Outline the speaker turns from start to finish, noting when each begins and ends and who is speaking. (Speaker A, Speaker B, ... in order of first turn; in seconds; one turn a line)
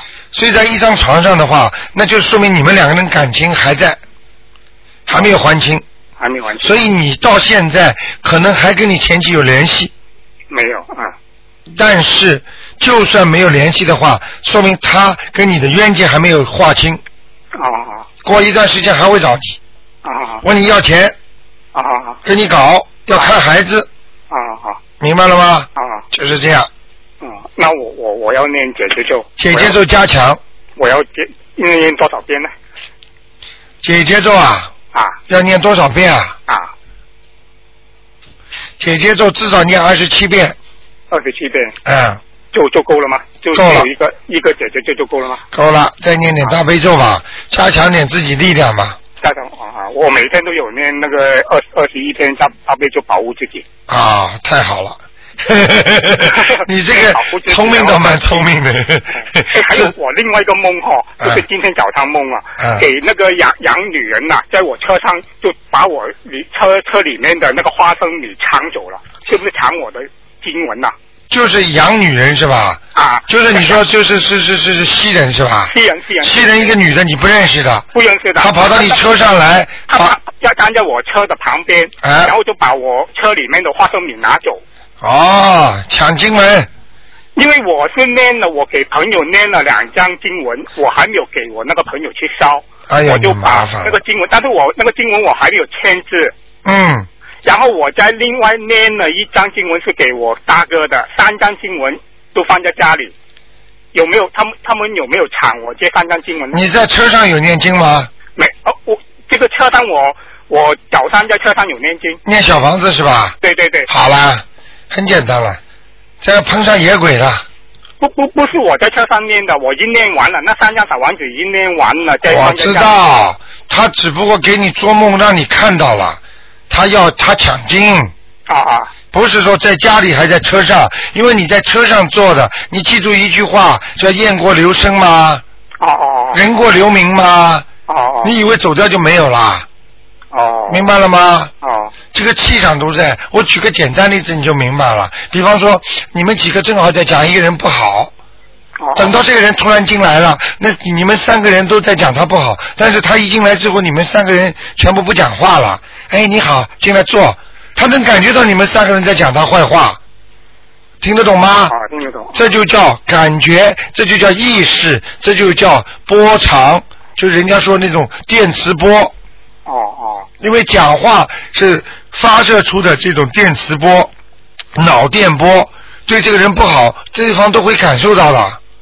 Speaker A: 0.3-4.0
Speaker A: 5.1-5.8
Speaker B: 6.2-6.8
Speaker A: 6.6-9.9
Speaker B: 10.5-11.1
Speaker A: 11.7-17.0
Speaker B: 17.5-18.1
Speaker A: 18.2-19.6
Speaker B: 20.0-20.4
Speaker A: 20.4-21.1
Speaker B: 21.7-22.2
Speaker A: 22.2-23.9
Speaker B: 24.3-24.8
Speaker A: 25.0-26.7
Speaker B: 25.8-26.0
Speaker B: 27.2-29.8
Speaker A: 29.4-30.4
Speaker B: 30.8-32.5
Speaker A: 33.8-34.7
Speaker B: 34.9-35.2
Speaker A: 35.3-36.4
Speaker B: 36.5-36.7
Speaker A: 38.8-40.6
Speaker B: 41.1-41.8
Speaker A: 41.8-42.2
Speaker B: 42.5-45.4
Speaker A: 43.5-43.9
Speaker A: 45.5-49.0
Speaker B: 49.2-53.6
Speaker A: 53.9-59.9
Speaker B: 56.2-58.4
Speaker B: 59.1-70.9
Speaker A: 62.6-62.9
Speaker A: 71.3-77.9
Speaker B: 72.9-73.8
Speaker B: 75.7-76.8
Speaker B: 77.9-79.0
Speaker A: 78.4-80.2
Speaker B: 79.9-84.6
Speaker A: 82.0-82.3
Speaker A: 85.0-86.7
Speaker B: 87.3-96.3
Speaker A: 92.9-94.0
Speaker A: 96.6-97.1
Speaker B: 97.4-103.1
Speaker B: 103.9-106.6
Speaker A: 106.5-108.1
Speaker B: 108.3-112.2
Speaker A: 112.2-113.3
Speaker B: 113.4-113.9
Speaker A: 113.9-115.6
Speaker A: 116.2-117.4
Speaker B: 118.0-122.9
Speaker A: 122.2-128.1
Speaker B: 128.5-128.9
Speaker A: 129.1-135.4
Speaker B: 135.8-136.4
Speaker A: 136.3-137.7
Speaker B: 137.9-138.3
Speaker A: 138.2-139.7
Speaker B: 140.3-140.8
Speaker A: 140.7-141.5
Speaker B: 141.6-141.9
Speaker A: 142.1-148.1
Speaker B: 148.8-149.2
Speaker A: 148.9-160.0
Speaker A: 161.0-161.7
Speaker B: 161.7-162.4
Speaker A: 162.3-169.1
Speaker B: 169.7-170.3
Speaker A: 170.4-174.1
Speaker A: 174.7-178.6